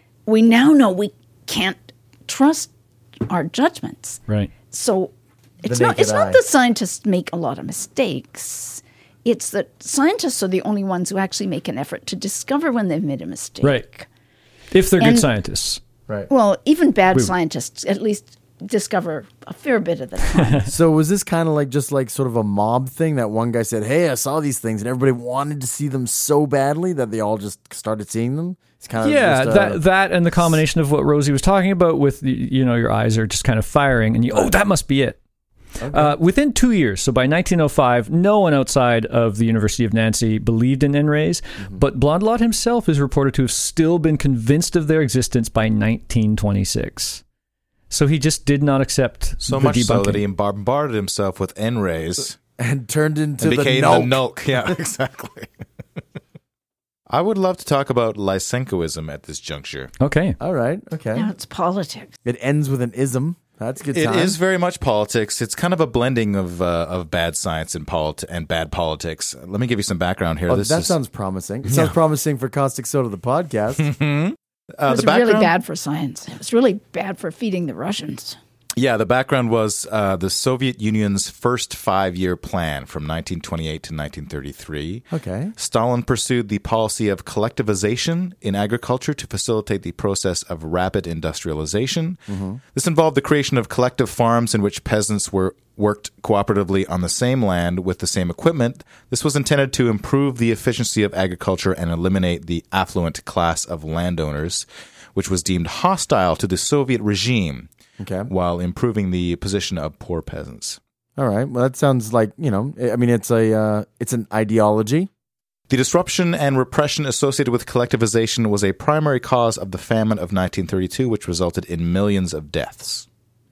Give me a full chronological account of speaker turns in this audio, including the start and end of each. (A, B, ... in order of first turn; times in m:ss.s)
0:00.3-0:02.7 A
0:03.3-0:14.1 A
0:05.6-0:06.4 B
0:14.7-0:15.8 C
0:15.0-0:15.3 A
0:16.3-0:20.7 A
0:20.4-0:20.7 C
0:20.7-0:29.8 B
0:29.0-0:35.2 C
0:30.4-0:30.6 B
0:35.8-0:36.2 B
0:35.9-0:47.2 C
0:41.6-0:41.8 B
0:47.9-0:50.2 C
0:49.4-0:52.4 D
0:52.6-0:54.7 B
0:53.4-0:55.5 D
0:57.1-0:59.9 D
1:00.0-1:00.4 C
1:00.4-1:01.3 B
1:01.1-1:02.1 A
1:02.2-1:04.4 B
1:03.9-1:11.0 D
1:10.5-1:13.9 B
1:11.6-1:11.9 D
1:13.8-1:15.5 D
1:14.9-1:18.4 A
1:18.8-1:25.0 D
1:25.1-1:25.5 B
1:25.6-1:32.2 D
1:32.3-1:32.6 B
1:32.7-1:47.7 D
1:48.0-1:48.3 B
1:48.3-1:50.8 D
1:51.2-1:55.1 B
1:55.7-2:03.1 D